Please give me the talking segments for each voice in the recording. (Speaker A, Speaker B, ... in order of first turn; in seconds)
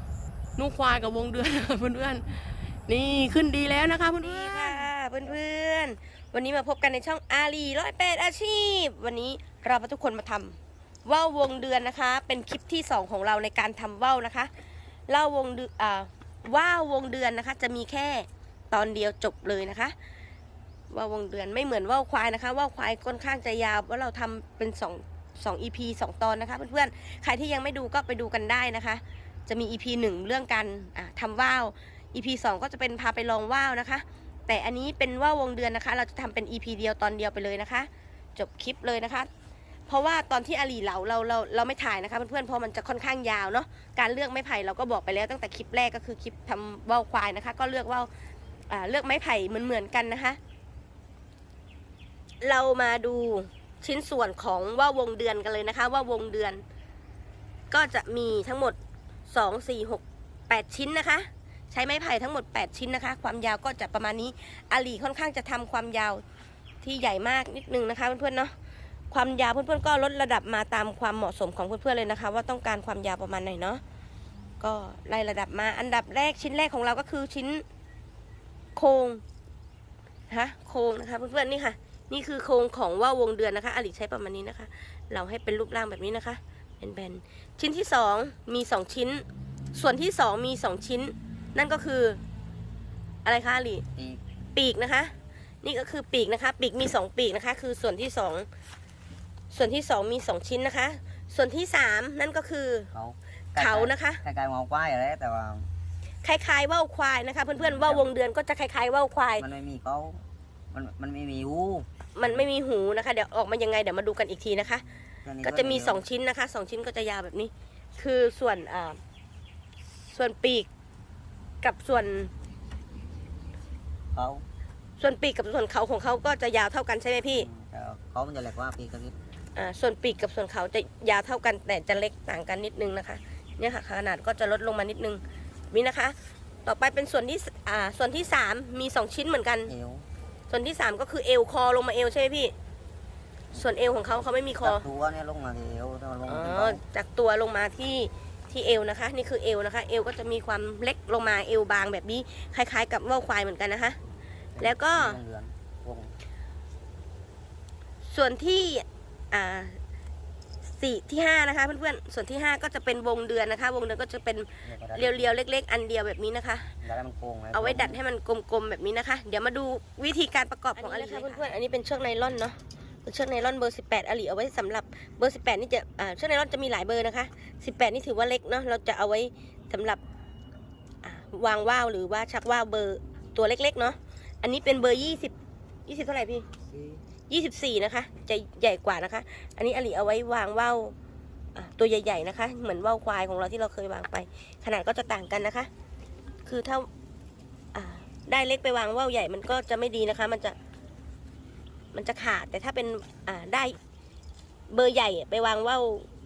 Speaker A: 0.6-4.9
Speaker B: 4.2-14.5, 15.1-19.9, 20.9-39.3, 39.9-48.1, 48.7-50.4, 52.4-56.6, 57.7-58.8, 59.3-66.2, 66.8-68.5, 69.1-73.8, 74.6-77.6, 78.8-79.2, 80.3-92.2, 93.2-93.8, 94.5-98.5, 99.5-102.9, 103.6-104.2, 106.2-109.5, 112.2-114.9, 115.4-119.0, 120.1-120.7, 121.6-122.3, 125.0-127.5, 129.6-139.7, 140.5-142.5, 143.5-144.9, 146.2-154.0, 154.6-155.2, 158.1-159.8, 160.7-166.7, 167.5-180.0, 181.0-185.3, 185.9-186.5, 187.3-190.9, 191.6-195.7, 196.4-196.9, 197.7-200.6, 201.9-203.8, 204.7-206.1
Speaker C: 94.0-94.2, 102.9-105.7, 107.5-108.1, 109.4-112.5, 115.2-116.0, 124.1-124.5, 127.3-129.1, 139.7-140.1, 144.6-146.8, 154.6-156.1, 164.6-165.3, 166.8-168.0, 186.7-187.0